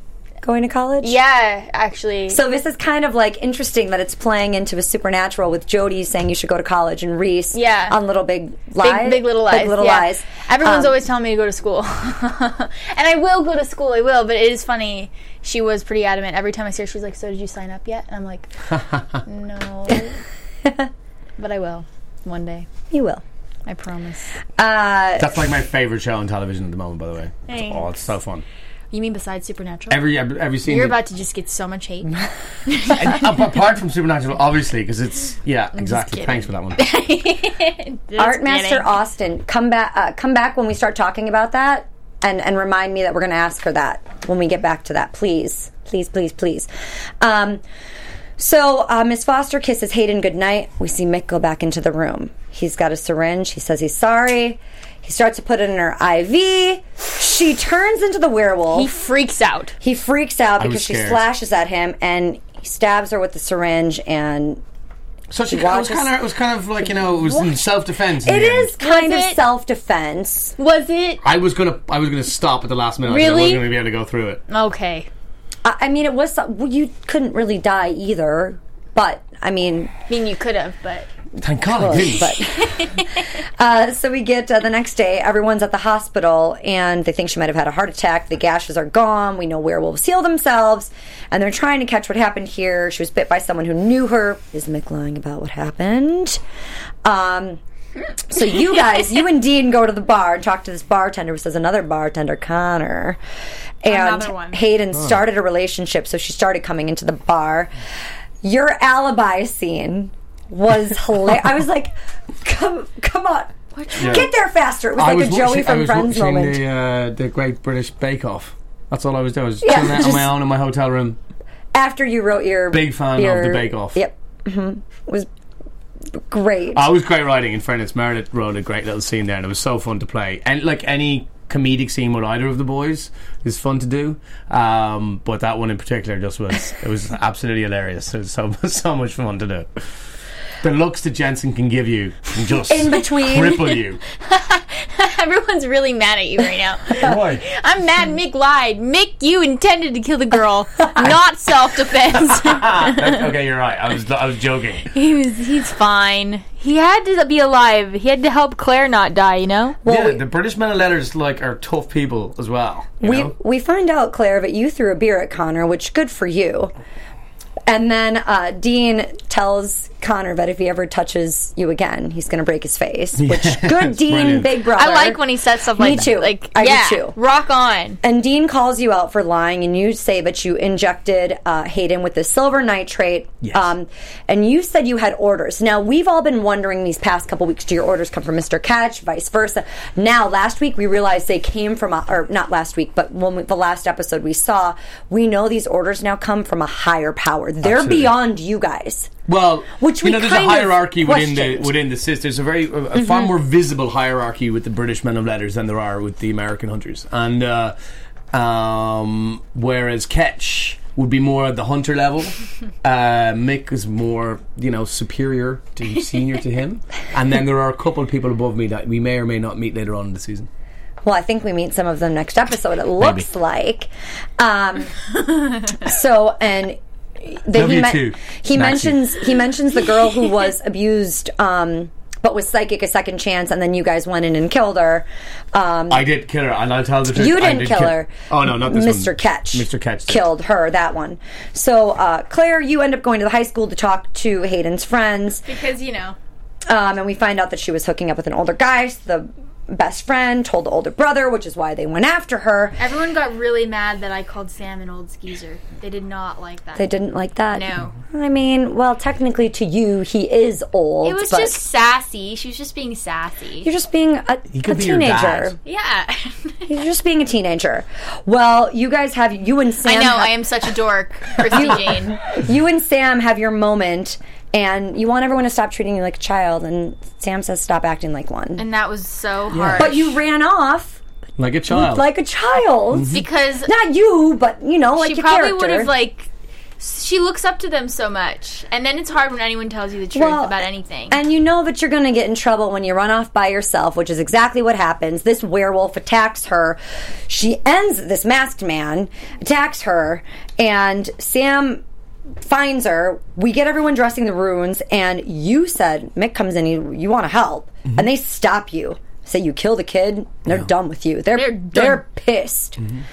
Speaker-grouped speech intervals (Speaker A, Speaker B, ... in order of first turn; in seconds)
Speaker A: 0.4-1.2, 2.3-10.9, 22.9-23.2, 24.6-25.3, 38.2-46.7, 47.2-47.6, 48.4-58.9, 59.8-64.6, 65.5-66.1, 68.2-70.5, 75.6-79.9, 81.7-83.1, 83.6-96.4, 97.0-97.6, 98.3-103.2, 103.8-107.7, 108.4-116.6, 119.6-120.3, 121.7-125.3, 126.2-126.9, 142.7-143.7, 159.8-160.2, 163.0-166.7, 167.7-175.2, 175.8-177.2, 178.0-199.1, 199.8-201.7, 221.0-225.0, 225.7-236.1, 237.1-245.5, 246.7-252.8, 256.8-261.6, 263.6-265.6, 266.7-270.4, 271.5-278.6, 279.8-281.0, 281.7-285.9, 290.1-290.6, 291.1-301.8, 302.4-312.8
Speaker B: 1.0-2.4, 7.5-8.0, 8.8-18.5, 19.2-20.2, 21.4-22.7, 23.7-24.3, 27.5-27.9, 28.9-30.0, 30.6-32.1, 32.7-33.1, 35.8-38.9, 58.7-59.8, 68.8-69.4, 70.6-71.2, 73.0-73.7, 74.5-75.1, 80.1-81.1, 82.6-83.0, 103.9-104.6, 113.8-114.3, 144.2-153.2, 154.9-159.8, 174.7-178.0, 245.5-246.2, 252.8-256.9, 257.5-257.9, 261.0-263.7, 265.6-266.7, 269.8-272.2, 278.6-280.2, 283.1-283.7, 285.0-291.2, 311.4-312.0
Speaker C: 18.7-19.2, 25.2-28.4, 29.9-31.0, 32.9-36.8, 60.6-61.2, 65.3-68.7, 71.2-74.4, 81.4-82.3, 114.0-114.3, 115.0-121.2, 122.7-124.0, 126.7-139.9, 140.6-144.0, 147.0-147.4, 152.3-154.9, 159.8-163.3, 173.2-174.6, 183.4-183.7, 197.6-198.2, 199.3-207.8, 208.3-220.5, 223.0-223.3, 227.5-229.1, 235.9-240.3, 264.5-265.6, 279.5-279.9, 281.4-282.1, 282.9-283.2